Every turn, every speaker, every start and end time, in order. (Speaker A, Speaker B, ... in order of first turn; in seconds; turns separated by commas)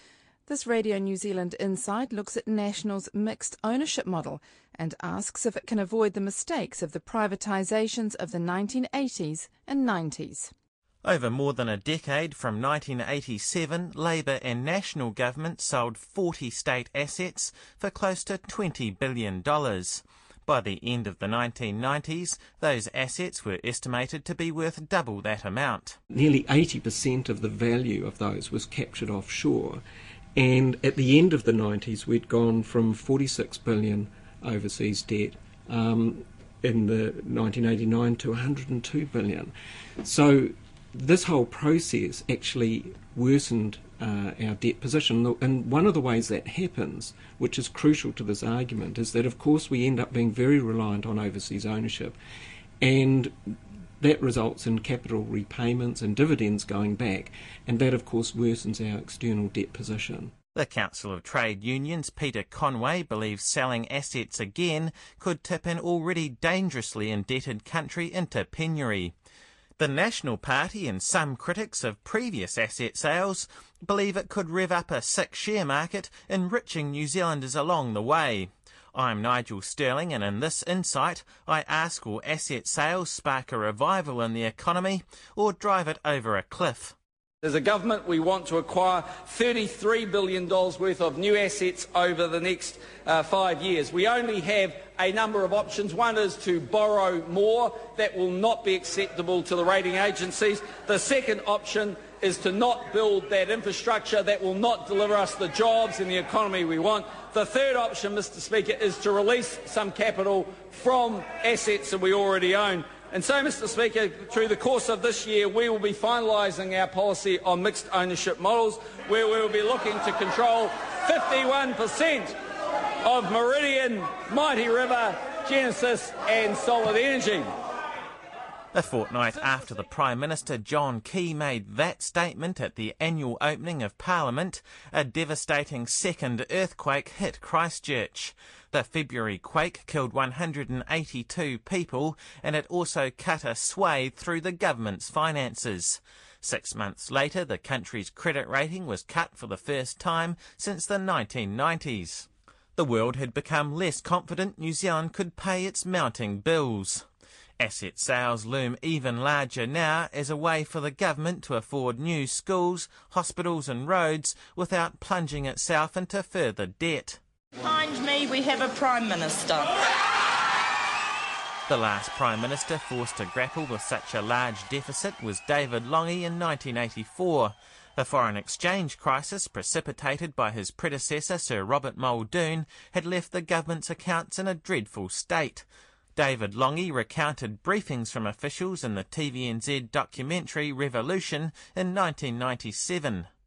Speaker A: 0.5-10.5, Speaker B: 11.0-26.0, Speaker C: 26.1-29.8, Speaker C: 30.3-52.2, Speaker C: 52.8-60.3, Speaker B: 60.5-69.1, Speaker B: 69.8-86.9, Speaker D: 87.4-122.3, Speaker D: 123.0-127.5, Speaker B: 128.7-157.1, Speaker B: 157.6-167.2, Speaker E: 167.6-169.7, Speaker B: 171.7-193.3